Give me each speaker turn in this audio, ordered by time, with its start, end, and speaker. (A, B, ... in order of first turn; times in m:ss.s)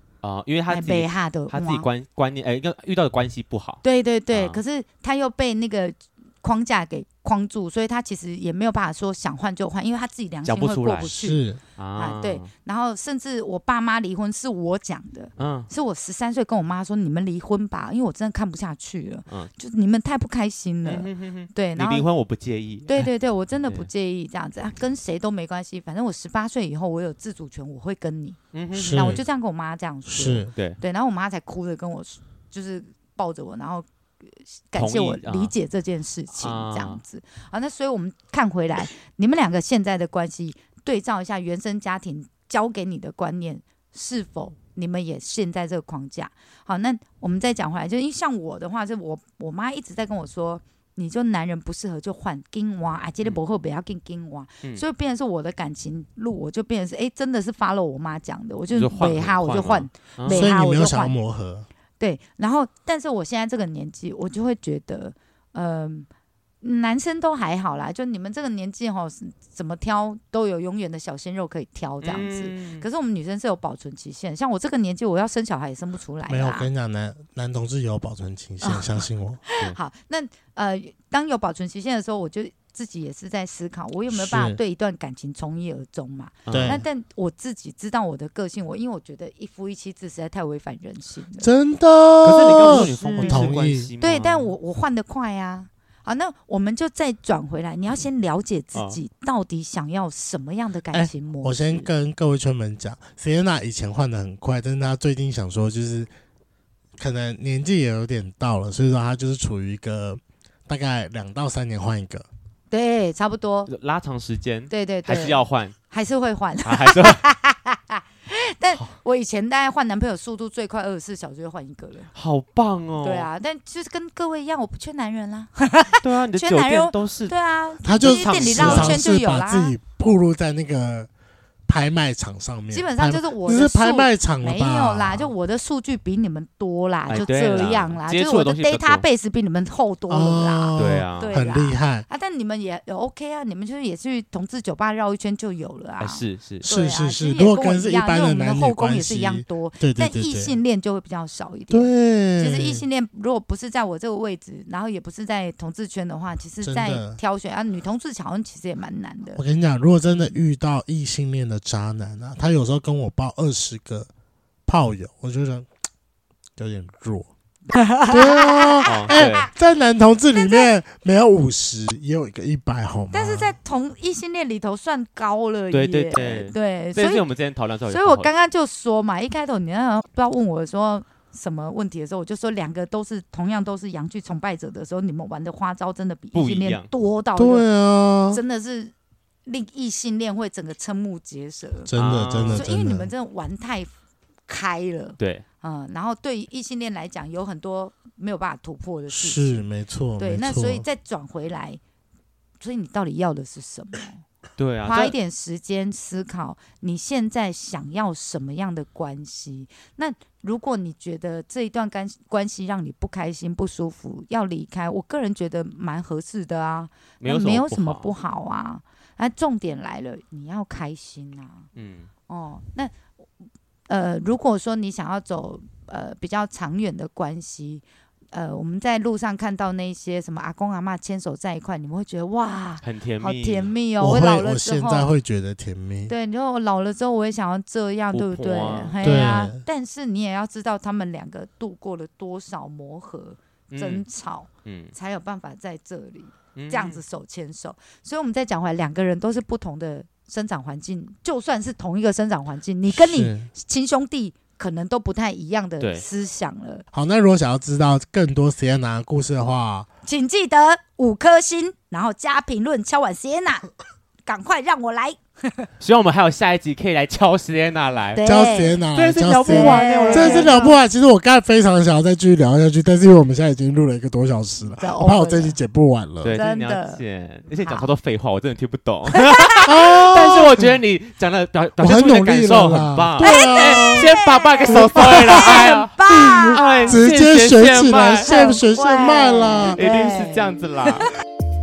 0:00.2-0:04.6 A
0:00.7-0:01.9 B
0:03.8-0:11.4 B
0:10.4-0:11.1 A
0:11.1-0:11.6 C
0:11.8-0:12.5 A
0:12.0-0:22.0 B
0:15.4-0:15.7 A
0:20.8-0:23.1 A
0:22.9-0:28.4 B
0:28.5-0:29.2 A
0:28.7-0:29.2 C
0:28.9-1:01.1 B
0:30.0-0:30.5 C
0:30.5-0:30.8 A
0:34.8-0:35.5 A
0:36.4-0:37.0 A
0:58.7-1:00.5 A
1:00.3-1:01.7 C
1:02.0-1:06.1 B
1:06.6-1:16.7 B
1:12.0-1:12.8 A
1:16.3-1:19.4 C
1:18.6-1:31.5 B
1:24.1-1:24.6 C
1:26.5-1:26.8 A
1:26.5-1:26.8 C
1:31.4-1:33.9 C
1:32.2-1:34.5 A
1:32.6-1:41.9 B
1:38.7-1:39.0 A
1:40.9-1:46.1 C
1:47.0-1:52.3 C
1:52.7-1:53.7 B
1:53.7-1:55.7 A
1:54.7-2:02.1 B
1:56.6-1:57.2 A
2:02.1-2:03.3 A
2:03.0-2:09.7 B
2:06.0-2:07.3 A
2:07.8-2:11.1 C
2:07.9-2:09.0 A
2:11.7-2:15.3 C
2:12.7-2:39.4 B
2:17.1-2:19.0 A
2:20.1-2:22.0 C
2:20.8-2:21.3 A
2:26.0-2:26.6 A
2:26.6-2:30.6 C
2:31.7-2:32.8 C
2:36.6-2:37.2 C
2:39.4-2:44.1 C
2:44.6-2:45.7 C
2:46.6-2:47.3 C
2:47.7-2:49.5 B
2:48.1-2:53.5 C
2:48.8-2:49.5 A
2:50.3-2:50.7 B
2:53.1-2:57.2 B
2:55.7-2:58.3 A
2:57.9-3:07.7 B
3:06.3-3:06.9 A
3:07.4-3:08.4 C
3:08.3-3:08.9 B
3:09.4-3:11.9 B
3:11.9-3:13.1 C
3:11.9-3:12.6 A
3:12.5-3:13.9 B
3:14.5-3:19.6 B
3:15.2-3:15.4 A
3:19.1-3:20.8 C
3:20.2-3:21.8 B
3:22.6-3:24.2 B
3:24.6-3:25.1 A
3:24.8-3:41.7 B
3:37.2-3:38.1 A
3:41.7-3:42.1 A
3:42.3-3:42.9 B
3:43.9-3:55.1 B
3:52.8-3:53.7 A
3:54.0-3:56.1 C
3:56.1-4:16.8 B
3:58.1-3:59.3 A
3:59.0-3:59.6 C
4:03.7-4:04.0 A
4:04.6-4:04.9 A
4:06.6-4:07.0 A
4:12.9-4:13.5 C
4:15.8-4:16.0 A
4:16.9-4:19.9 C
4:20.0-4:23.7 B
4:24.2-4:25.7 B
4:25.8-4:28.2 A
4:28.1-4:28.8 B
4:28.2-4:36.4 C
4:28.9-4:30.7 A
4:29.4-4:30.7 B
4:34.8-4:35.6 B
4:36.2-4:48.6 A
4:36.3-4:37.0 B
4:37.6-4:37.9 B
4:39.2-4:39.7 B
4:39.6-4:40.7 C
4:41.8-4:44.1 C
4:43.2-4:47.0 B
4:44.7-4:49.8 C
4:48.2-4:51.0 B
4:49.7-4:51.1 A